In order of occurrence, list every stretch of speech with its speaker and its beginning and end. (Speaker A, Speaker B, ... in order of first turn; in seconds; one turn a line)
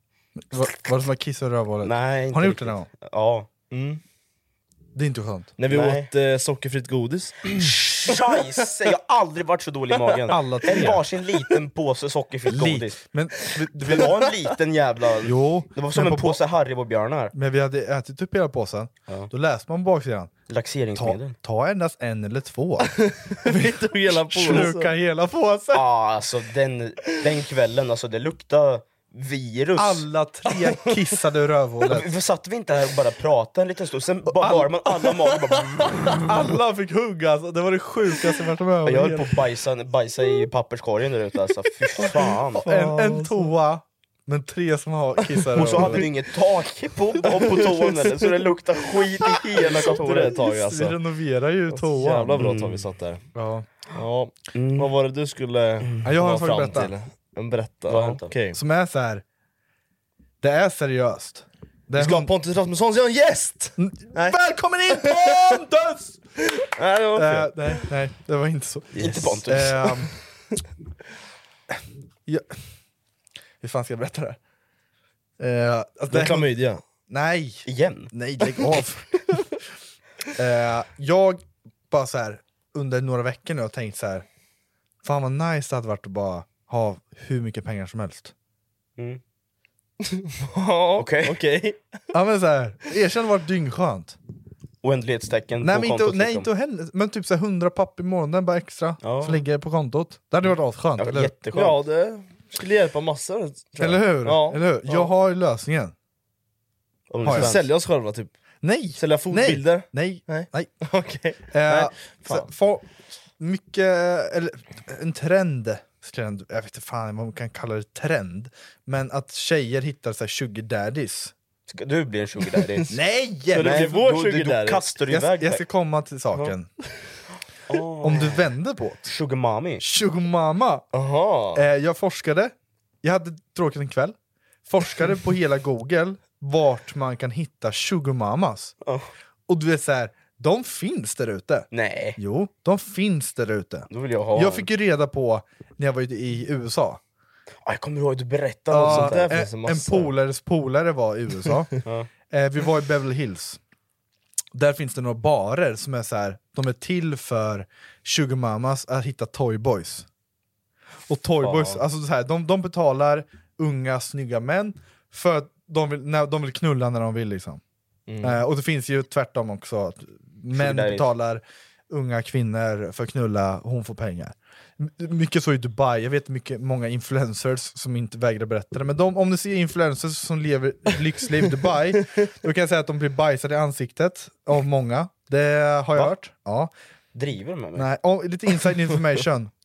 Speaker A: 0.5-2.9
Speaker B: 1.8-3.5
Speaker C: 3.7-4.0
Speaker A: 5.0-5.5
Speaker C: 5.6-7.7
Speaker B: 5.7-6.1
Speaker B: 7.5-13.0
Speaker A: 10.3-11.0
Speaker C: 10.7-11.0
Speaker A: 12.5-14.2
Speaker B: 13.8-17.3
Speaker C: 13.9-14.2
Speaker A: 15.2-16.4
Speaker A: 17.3-20.3
Speaker B: 20.5-21.3
Speaker A: 20.9-25.8
Speaker C: 23.0-24.9
Speaker B: 25.7-30.1
Speaker A: 29.8-32.1
Speaker B: 31.9-36.2
Speaker A: 34.4-34.7
Speaker C: 35.8-36.2
Speaker A: 36.3-39.4
Speaker B: 38.8-42.7
Speaker C: 42.0-43.5
Speaker A: 42.6-46.0
Speaker C: 45.4-46.1
Speaker B: 45.5-50.4
Speaker C: 47.2-48.3
Speaker C: 49.3-51.0
Speaker A: 50.3-52.5
Speaker C: 51.8-53.2
Speaker B: 52.4-52.8
Speaker A: 53.3-53.7
Speaker C: 54.0-58.6
Speaker B: 54.5-54.9
Speaker A: 56.0-56.9
Speaker B: 57.9-58.3
Speaker A: 58.5-59.2
Speaker A: 60.4-62.3
Speaker C: 62.0-64.4
Speaker A: 63.8-66.2
Speaker C: 65.0-65.5
Speaker C: 66.6-67.8
Speaker A: 67.1-70.1
Speaker B: 69.0-69.9
Speaker C: 69.0-69.2
Speaker A: 72.3-72.6
Speaker A: 73.6-74.4
Speaker A: 75.4-76.5
Speaker C: 76.1-76.8
Speaker A: 77.1-79.3
Speaker B: 77.7-78.1
Speaker A: 80.4-84.2
Speaker A: 85.0-88.3
Speaker C: 90.0-91.8
Speaker B: 91.0-91.4
Speaker A: 92.1-94.2
Speaker B: 94.8-96.5
Speaker A: 95.6-101.3
Speaker B: 99.0-99.4
Speaker B: 101.0-101.8
Speaker C: 101.5-105.1
Speaker A: 103.8-105.9
Speaker B: 107.1-107.7
Speaker A: 107.2-107.6
Speaker C: 107.3-108.3
Speaker A: 108.6-110.7
Speaker C: 109.0-112.5
Speaker A: 111.5-112.8
Speaker A: 113.4-121.3
Speaker B: 121.7-122.9
Speaker C: 122.6-122.9
Speaker A: 122.9-123.9
Speaker C: 123.5-124.9
Speaker B: 123.5-125.6
Speaker A: 125.1-126.7
Speaker B: 127.7-128.4
Speaker A: 128.0-129.1
Speaker B: 129.1-129.8
Speaker A: 129.8-130.9
Speaker C: 130.9-131.6
Speaker A: 131.5-134.1
Speaker A: 134.7-138.7
Speaker A: 139.5-147.0
Speaker B: 141.7-142.2
Speaker B: 143.9-144.7
Speaker B: 147.6-149.3
Speaker A: 148.7-151.7
Speaker C: 148.8-150.1
Speaker A: 152.3-153.6
Speaker A: 154.5-160.1
Speaker A: 161.1-167.6
Speaker B: 161.4-161.8
Speaker C: 168.1-168.4
Speaker A: 168.2-186.7
Speaker B: 170.5-171.1
Speaker B: 187.1-187.9
Speaker A: 187.7-189.5